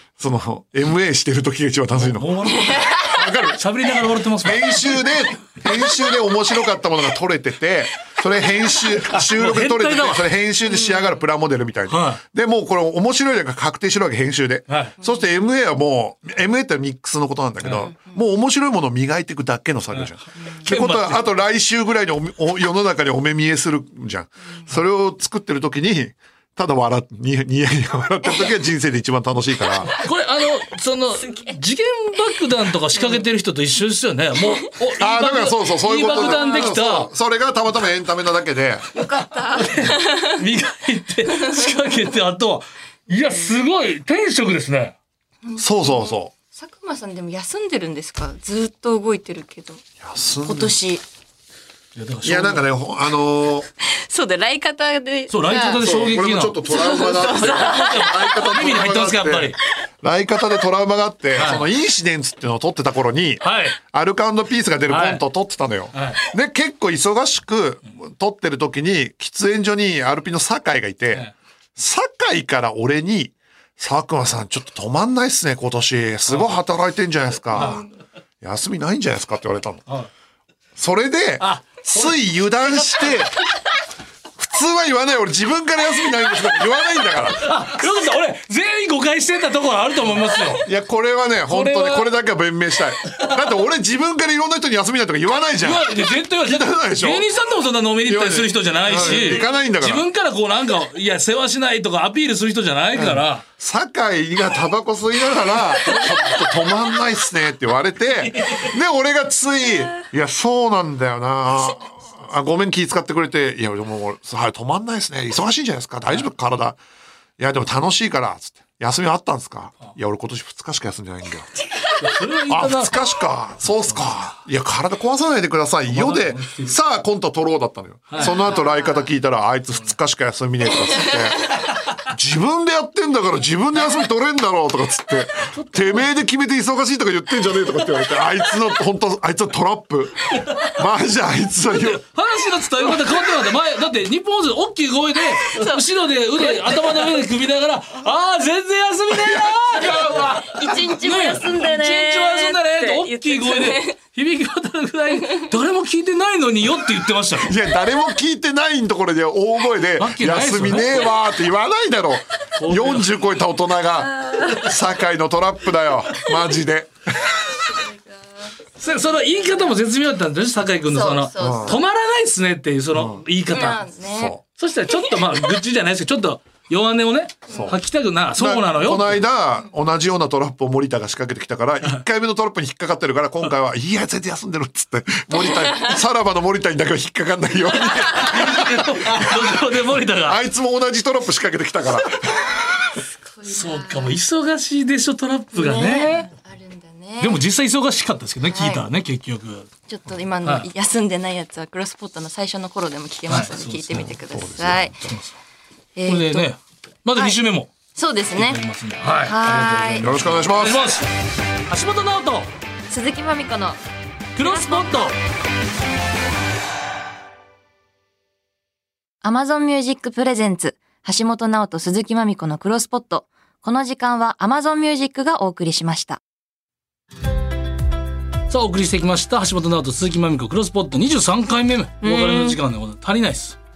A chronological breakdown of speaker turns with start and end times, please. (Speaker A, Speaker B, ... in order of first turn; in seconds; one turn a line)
Speaker A: 0.2-3.6
Speaker B: 1.9-5.1
Speaker C: 2.7-3.0
Speaker A: 4.4-29.9
Speaker B: 9.0-10.3
Speaker C: 10.8-11.1
Speaker B: 11.9-12.2
Speaker B: 14.7-14.9
Speaker B: 17.6-17.9
Speaker C: 17.9-18.2
Speaker B: 19.9-21.3
Speaker C: 28.2-28.5
Speaker B: 29.9-37.1
Speaker C: 33.0-33.2
Speaker A: 35.0-38.9
Speaker C: 36.1-36.7
Speaker C: 38.9-40.5
Speaker B: 39.5-45.0
Speaker C: 41.2-42.0
Speaker C: 45.4-49.8
Speaker A: 45.6-46.3
Speaker A: 50.0-50.8
Speaker C: 50.4-51.0
Speaker B: 52.0-52.7
Speaker A: 52.2-53.7
Speaker C: 53.8-56.0
Speaker B: 55.3-59.6
Speaker A: 55.8-77.8
Speaker C: 56.6-58.8
Speaker B: 61.4-61.6
Speaker B: 63.4-63.8
Speaker B: 64.9-65.2
Speaker B: 65.9-66.2
Speaker B: 76.3-76.6
Speaker B: 77.5-77.8
Speaker A: 78.4-79.8
Speaker A: 80.8-83.3
Speaker B: 81.4-83.3
Speaker A: 84.4-87.6
Speaker B: 87.4-90.7
Speaker A: 90.6-97.2
Speaker B: 91.5-92.1
Speaker B: 95.6-103.4
Speaker A: 98.1-100.1
Speaker C: 98.9-99.5
Speaker A: 103.0-116.8
Speaker B: 108.4-108.7
Speaker A: 117.4-121.5
Speaker C: 121.7-122.4
Speaker B: 122.0-123.0
Speaker A: 122.5-131.5
Speaker B: 123.7-124.3
Speaker B: 125.9-126.8
Speaker B: 128.1-128.4
Speaker C: 128.2-129.1
Speaker C: 130.8-131.6
Speaker A: 132.0-142.0
Speaker B: 135.5-136.1
Speaker B: 141.7-150.2
Speaker C: 145.2-145.8
Speaker C: 146.4-147.1
Speaker A: 149.1-150.8
Speaker C: 149.8-153.9
Speaker B: 150.9-157.6
Speaker C: 155.2-155.5
Speaker A: 157.4-167.5
Speaker B: 160.0-161.2
Speaker B: 162.6-163.1
Speaker C: 164.2-164.7
Speaker C: 167.5-169.8
Speaker B: 168.8-173.8
Speaker C: 170.9-171.8
Speaker A: 171.4-171.8
Speaker A: 172.9-173.2
Speaker C: 173.5-174.3
Speaker A: 174.0-174.4
Speaker B: 174.6-179.3
Speaker C: 174.9-175.6
Speaker A: 177.5-177.8
Speaker A: 178.4-189.7
Speaker C: 185.3-186.0
Speaker C: 187.9-188.3
Speaker B: 188.2-190.4
Speaker A: 190.2-192.7
Speaker C: 193.2-194.2
Speaker B: 193.4-196.3
Speaker C: 195.5-197.4
Speaker B: 197.2-199.7
Speaker C: 198.4-198.9
Speaker C: 199.9-205.0
Speaker B: 203.3-204.1
Speaker A: 204.1-205.2
Speaker B: 205.1-205.4
Speaker C: 206.0-206.5
Speaker B: 206.1-207.7
Speaker C: 207.9-208.6
Speaker B: 208.3-211.1
Speaker C: 209.2-210.1
Speaker A: 210.0-210.8
Speaker B: 211.7-212.5
Speaker C: 212.9-213.8
Speaker B: 214.4-215.2
Speaker C: 214.4-215.2
Speaker C: 219.2-226.2
Speaker B: 228.5-233.6
Speaker C: 232.0-232.6